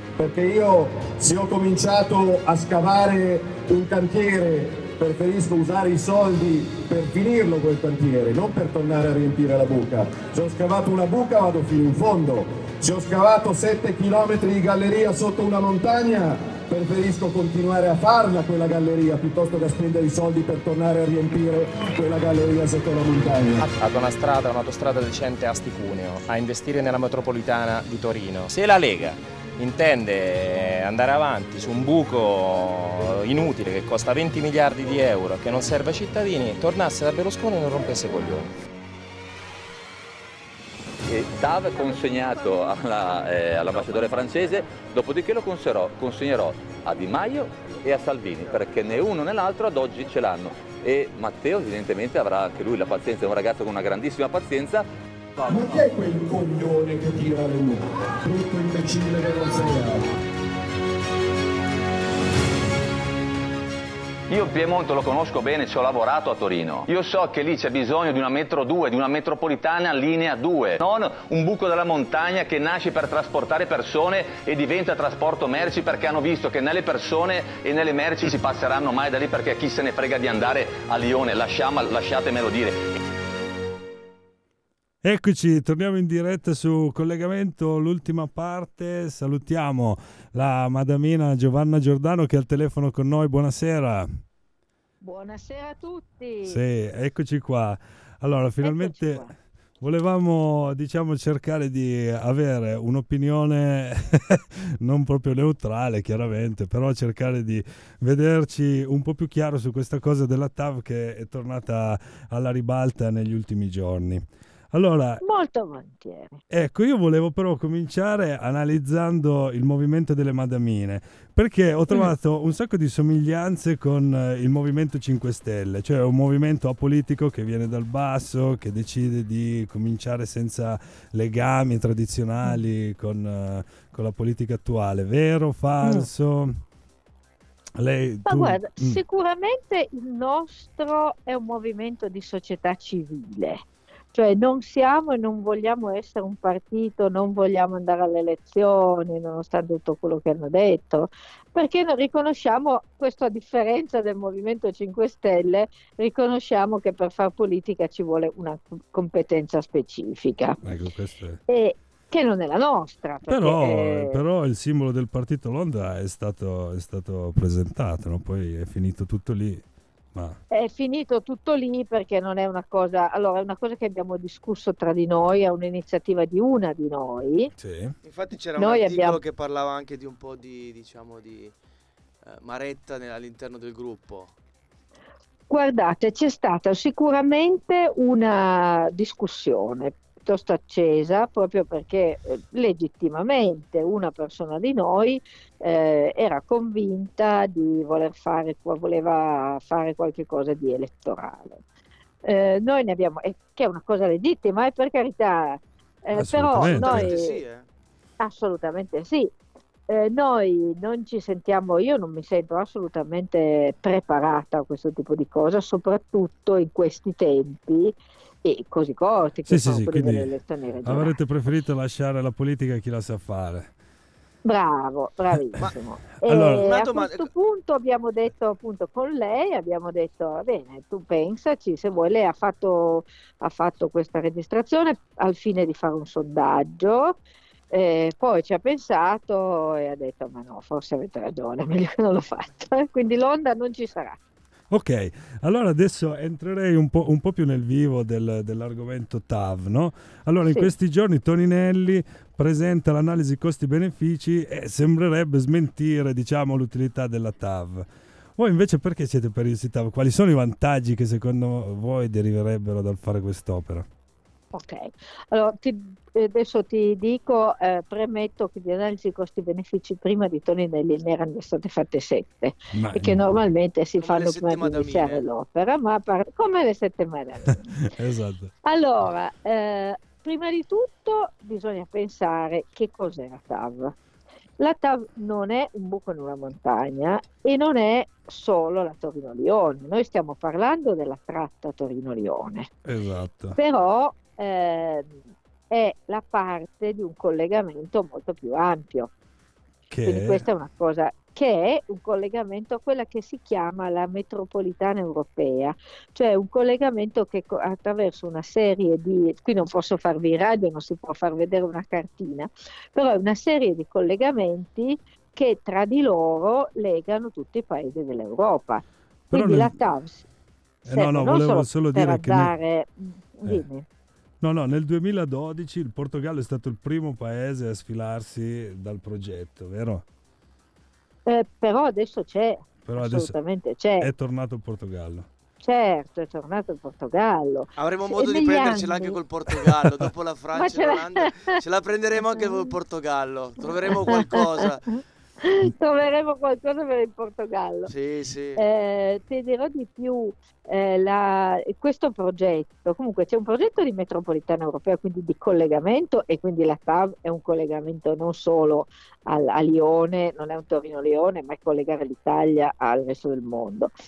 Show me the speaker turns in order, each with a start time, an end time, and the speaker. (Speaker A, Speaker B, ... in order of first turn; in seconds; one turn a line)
Speaker A: 0.2-23.7
Speaker B: 23.6-38.5
Speaker C: 41.1-54.9
Speaker A: 55.4-60.1
Speaker C: 64.3-83.0
Speaker D: 85.0-94.1
Speaker E: 95.0-96.6
Speaker D: 96.5-99.3
Speaker E: 98.6-99.3
Speaker D: 99.8-115.2
Speaker E: 115.2-116.4
Speaker D: 116.5-136.6
Speaker D: 137.8-139.0
Speaker E: 138.3-143.6
Speaker E: 144.1-160.6
Speaker D: 160.6-161.4
Speaker E: 161.5-164.2
Speaker D: 163.3-170.4
Speaker E: 170.5-177.5
Speaker D: 177.6-177.9
Speaker F: 178.0-181.5
Speaker E: 178.6-179.2
Speaker F: 182.2-184.3
Speaker E: 185.5-201.6
Speaker E: 202.2-207.4
Speaker D: 206.2-207.2
Speaker F: 206.6-207.7
Speaker E: 208.2-209.3
Speaker E: 209.9-221.2
Speaker D: 219.5-220.3
Speaker D: 220.8-223.7
Speaker E: 224.4-237.2
Speaker D: 226.2-226.6
Speaker F: 226.4-227.3
Speaker E: 237.7-244.2
Speaker D: 244.7-263.9
Speaker E: 264.5-277.7
Speaker D: 272.7-273.4
Speaker F: 274.0-275.2
Speaker D: 277.9-278.5
Speaker E: 278.6-283.9
Speaker E: 284.6-292.7
Speaker D: 292.8-293.6
Speaker E: 293.6-295.2
Speaker E: 295.7-299.1
Speaker D: 299.9-300.5
Speaker E: 300.1-320.3
Speaker D: 319.3-319.8
Speaker D: 320.8-322.6
Speaker E: 320.9-323.9
Speaker D: 324.4-330.1
Speaker E: 331.3-334.1
Speaker D: 332.9-333.4
Speaker D: 334.0-335.3
Speaker E: 335.6-339.2
Speaker F: 337.8-344.9
Speaker E: 340.6-341.4
Speaker E: 342.3-342.7
Speaker E: 343.9-347.9
Speaker F: 347.9-348.6
Speaker E: 348.6-363.9